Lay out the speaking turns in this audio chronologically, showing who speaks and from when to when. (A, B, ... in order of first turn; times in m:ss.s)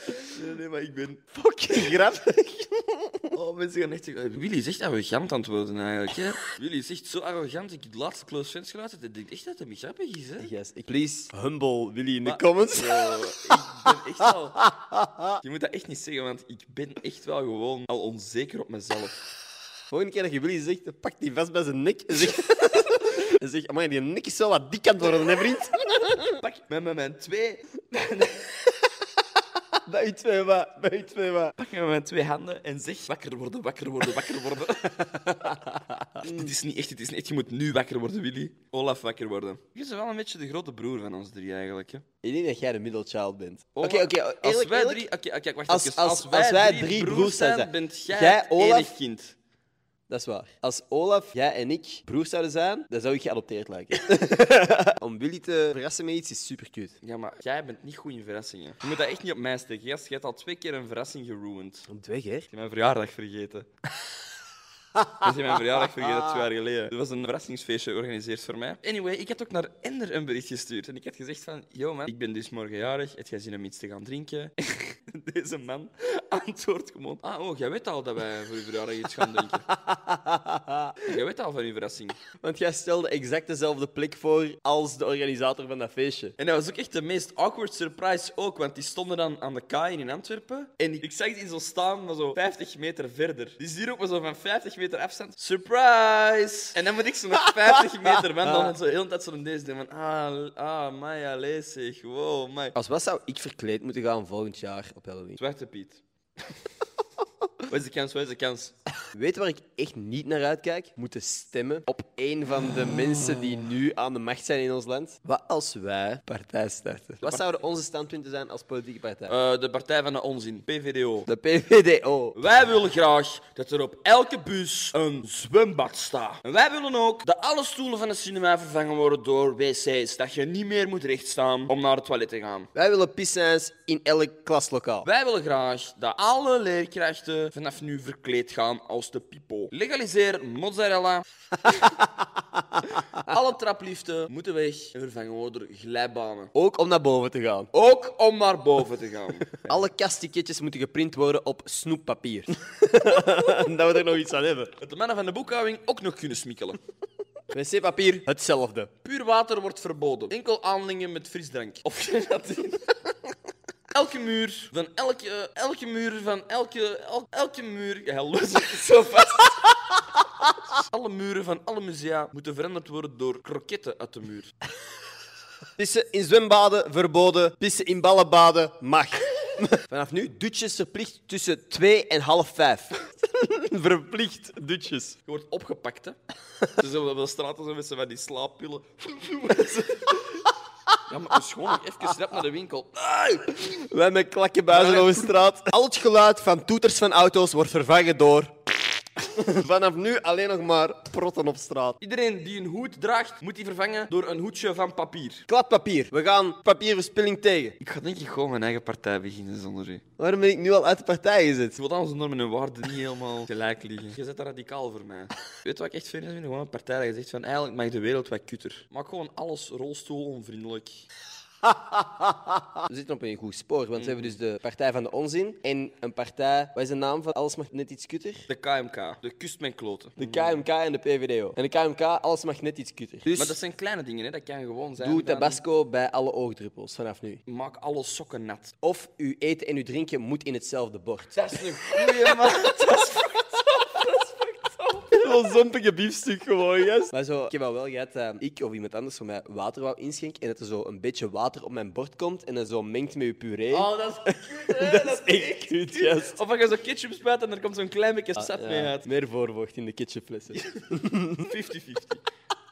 0:00.1-0:01.2 A
0:01.3-0:03.4 B
0:03.3-0:10.5 A
0:10.4-0:13.5 B
0:12.2-0:14.6 A
0:14.6-0:15.3 B
0:15.4-0:19.2 A
0:19.9-0:26.4 B
0:26.4-0:28.6 A
0:29.8-0:31.5 B
0:31.6-0:35.6 A
0:35.1-0:36.5 B
0:36.2-0:42.0 A
0:42.2-0:45.0 B
0:43.8-0:49.4 A
0:45.7-0:48.9 B
0:50.1-0:57.0 B
0:57.0-1:01.9 A
1:01.9-1:02.5 B
1:02.5-1:03.7 A
1:05.2-1:19.6 A
1:19.4-1:21.0 B
1:21.0-1:22.1 A
1:22.4-1:26.4 B
1:26.4-1:42.8 A
1:38.4-1:38.7 B
1:42.8-1:45.4 B
1:45.4-1:46.0 A
1:47.6-1:48.7 A
1:49.1-1:59.3 B
1:59.3-2:01.3 A
2:01.2-2:02.4 B
2:02.3-2:12.7 A
2:12.7-2:15.1 B
2:15.0-2:21.8 A
2:21.8-2:23.0 B
2:23.1-2:26.5 A
2:26.5-2:27.7 B
2:27.7-2:29.6 A
2:29.7-2:34.7 B
2:34.8-2:36.8 A
2:37.5-2:38.9 B
2:39.0-2:42.9 A
2:43.9-2:49.7 A
2:50.7-2:54.5 A
2:55.8-3:05.2 B
3:05.2-3:06.2 A
3:06.7-3:10.5 A
3:11.1-3:13.6 A
3:13.6-3:18.5 B
3:14.7-3:15.4 A
3:19.1-3:22.0 B
3:22.0-3:25.4 A
3:25.5-3:27.8 B
3:27.8-3:30.0 A
3:30.2-3:31.8 B
3:31.8-3:41.1 A
3:41.6-3:48.4 B
3:43.9-3:44.4 A
3:48.5-3:50.6 A
3:50.2-3:53.6 B
3:53.3-3:55.6 A
3:55.0-3:57.4 B
3:57.5-3:58.7 A
3:58.8-4:02.1 B
4:01.3-4:05.3 A
4:05.1-4:16.4 B
4:13.7-4:19.0 A
4:18.4-4:21.4 B
4:20.5-4:22.2 A